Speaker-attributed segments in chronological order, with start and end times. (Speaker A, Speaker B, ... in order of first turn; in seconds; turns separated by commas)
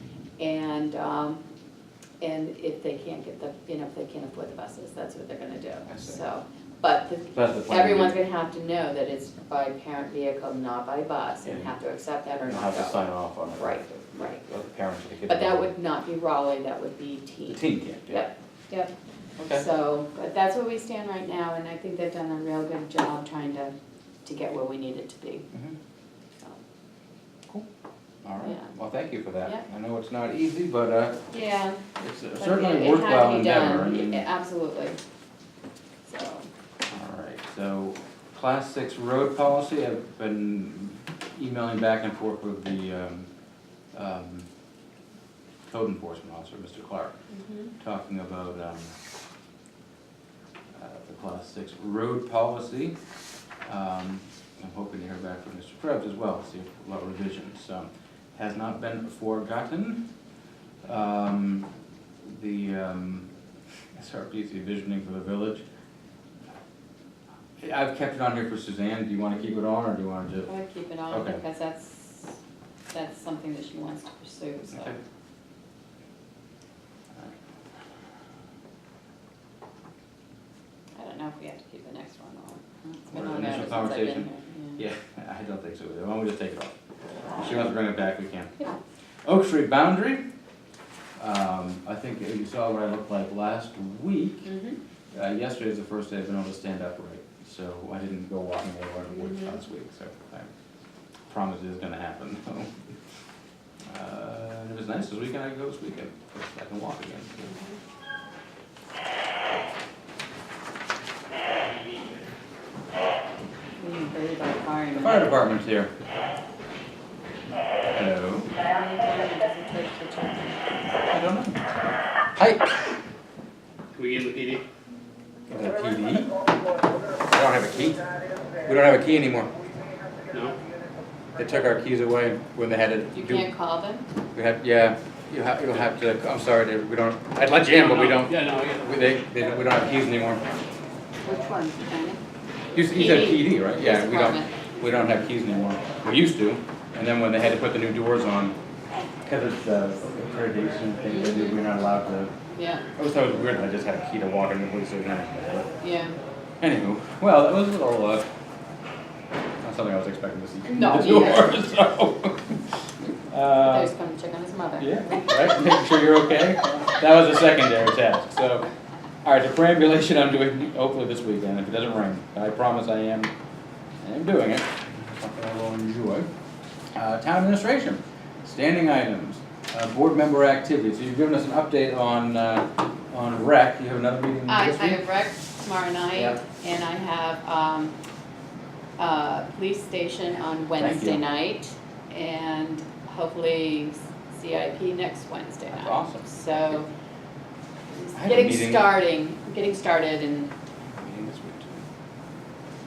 Speaker A: 0.4-1.4, Speaker A: 2.2-14.4, Speaker B: 5.9-6.2, Speaker B: 7.3-8.2, Speaker B: 11.4-11.7, Speaker B: 12.4-15.7, Speaker A: 15.3-18.9, Speaker B: 17.5-18.3, Speaker B: 19.4-19.6, Speaker A: 19.5-25.5, Speaker B: 28.2-31.2, Speaker A: 28.4-28.7, Speaker A: 31.3-31.8, Speaker B: 32.0-34.2, Speaker A: 32.4-35.0, Speaker A: 36.1-36.5, Speaker B: 36.9-43.3, Speaker B: 43.9-44.5, Speaker B: 45.7-47.1, Speaker A: 47.3-47.7, Speaker B: 47.8-48.9, Speaker B: 50.8-53.0, Speaker B: 53.6-60.0, Speaker B: 60.8-61.7, Speaker B: 62.2-63.3, Speaker B: 63.9-65.6, Speaker B: 67.6-70.5, Speaker A: 70.5-72.4, Speaker B: 71.1-71.4, Speaker A: 72.9-75.0, Speaker B: 74.7-75.0, Speaker A: 81.0-84.8, Speaker B: 83.1-86.7, Speaker B: 87.4-88.6, Speaker B: 89.2-90.2, Speaker B: 91.2-94.5, Speaker A: 94.5-94.8, Speaker B: 95.1-100.5, Speaker A: 99.2-99.6, Speaker B: 101.3-102.8, Speaker B: 103.9-107.6, Speaker A: 107.5-107.8, Speaker A: 113.8-115.4, Speaker B: 115.0-115.9, Speaker B: 117.9-118.5, Speaker A: 118.6-121.0, Speaker B: 121.1-121.6, Speaker B: 122.4-122.7, Speaker C: 123.9-124.6, Speaker B: 125.5-126.3, Speaker B: 127.2-128.0, Speaker B: 128.6-129.5, Speaker C: 130.3-130.6, Speaker B: 131.4-133.5, Speaker A: 133.1-134.1, Speaker B: 134.3-140.4, Speaker C: 137.7-138.8, Speaker A: 141.2-142.2, Speaker B: 142.7-148.5, Speaker A: 142.9-144.5, Speaker B: 149.2-152.3, Speaker A: 151.1-151.6, Speaker A: 152.5-152.8, Speaker B: 153.0-155.7, Speaker A: 155.8-156.2, Speaker B: 156.6-158.3, Speaker B: 159.6-162.6, Speaker A: 160.7-161.5, Speaker B: 163.3-163.9, Speaker A: 163.6-165.3, Speaker B: 164.8-168.7, Speaker B: 169.2-173.3, Speaker B: 174.0-176.3, Speaker B: 176.9-185.0, Speaker A: 184.5-188.0, Speaker B: 186.1-186.4, Speaker A: 189.0-196.9, Speaker B: 190.8-191.2, Speaker B: 195.7-196.3, Speaker A: 197.9-200.5, Speaker B: 198.1-198.9, Speaker B: 200.9-201.9